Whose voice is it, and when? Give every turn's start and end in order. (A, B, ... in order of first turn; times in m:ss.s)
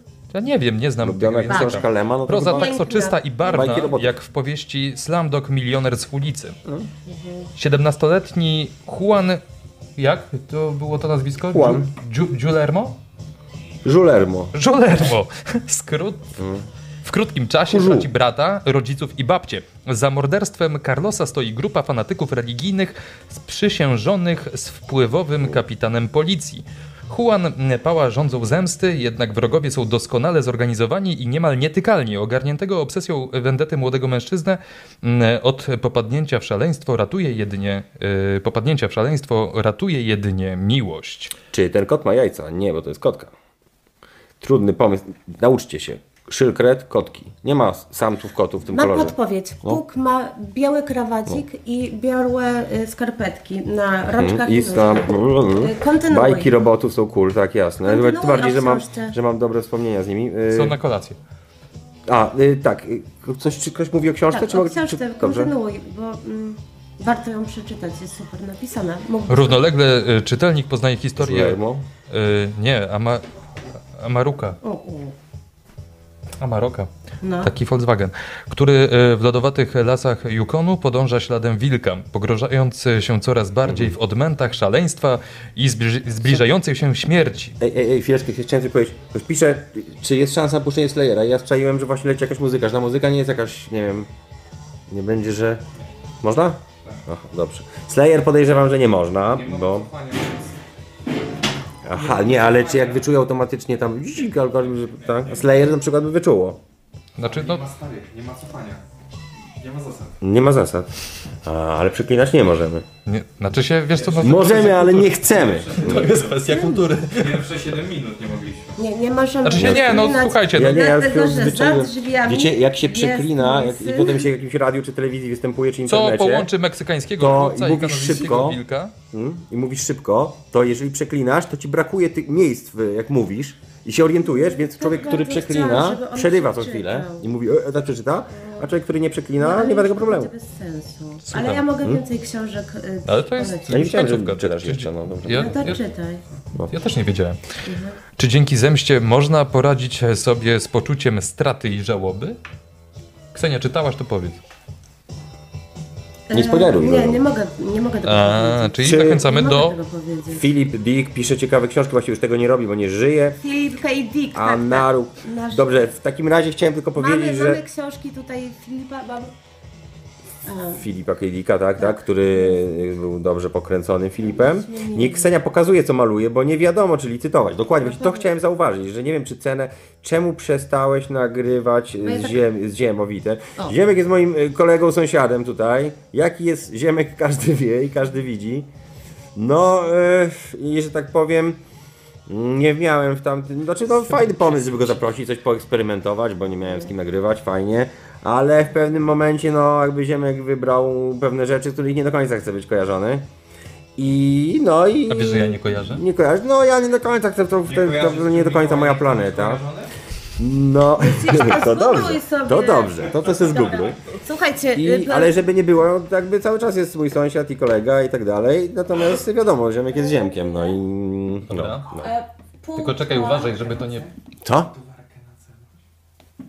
0:00.3-0:06.6 A
0:01.0-0:02.7 B
0:01.5-0:01.9 C
0:02.4-0:03.9 C
0:03.4-0:04.1 B
0:07.1-0:07.5 C
0:07.6-0:09.4 A
0:10.0-0:13.0 A
0:11.5-0:11.9 B
0:13.8-0:14.5 B
0:14.5-0:16.4 A
0:16.4-0:16.6 B
0:17.0-0:41.3 A
0:17.7-0:18.1 B
0:41.5-0:43.3 B
0:44.4-0:49.8 B
0:48.7-0:56.5 C
0:54.2-1:00.8 B
0:57.8-0:59.1 C
1:00.5-1:01.2 A
1:02.1-1:05.5 B
1:04.3-1:09.6 C
1:09.3-1:13.2 A
1:11.2-1:11.8 B
1:13.9-1:14.6 A
1:14.6-1:15.1 C
1:16.4-1:16.9 A
1:17.2-1:17.5 C
1:17.4-1:27.6 A
1:23.6-1:23.9 B
1:27.6-1:34.1 B
1:34.9-1:35.6 B
1:36.2-1:39.9 B
1:39.3-1:40.5 D
1:41.8-1:46.6 B
1:41.9-1:43.0 D
1:45.0-1:45.4 D
1:47.2-1:47.6 A
1:47.2-1:48.8 D
1:49.6-1:50.1 D
1:50.2-1:50.9 B
1:51.4-1:52.8 B
1:53.0-1:55.2 A
1:53.9-1:56.5 D
1:54.2-1:56.1 B
1:55.7-1:57.5 A
1:56.5-1:56.8 C
1:57.1-1:58.8 D
1:58.8-2:04.2 C
1:59.4-2:00.8 A
1:59.6-2:06.5 B
2:05.9-2:08.9 A
2:07.2-2:08.6 B
2:09.1-2:20.3 B
2:14.3-2:17.2 C
2:18.4-2:18.6 C
2:19.4-2:23.8 C
2:21.2-2:21.6 A
2:23.0-2:25.8 A
2:23.7-2:25.7 B
2:25.3-2:26.2 C
2:26.7-2:27.4 A
2:27.6-2:28.0 C
2:28.2-2:32.4 A
2:33.3-2:34.4 A
2:36.3-2:40.4 C
2:36.3-2:37.2 B
2:38.0-2:39.8 A
2:38.8-2:39.3 B
2:40.3-2:43.4 B
2:43.4-2:45.9 C
2:44.3-2:47.6 B
2:47.0-2:49.3 C
2:50.4-2:50.8 C
2:50.8-3:08.7 B
2:51.8-2:52.6 C
2:54.3-2:55.3 C
2:57.8-2:58.3 C
3:02.0-3:02.4 C
3:09.4-3:11.6 B
3:12.3-3:23.2 B
3:24.0-3:29.6 B
3:25.1-3:26.0 A
3:27.7-3:29.9 D
3:30.4-3:34.0 B
3:31.0-3:35.4 C
3:34.7-3:42.1 B
3:41.5-3:41.9 A
3:42.0-3:43.8 C
3:42.8-3:44.1 A
3:43.8-3:44.1 D
3:44.4-3:44.7 B
3:44.7-3:45.6 D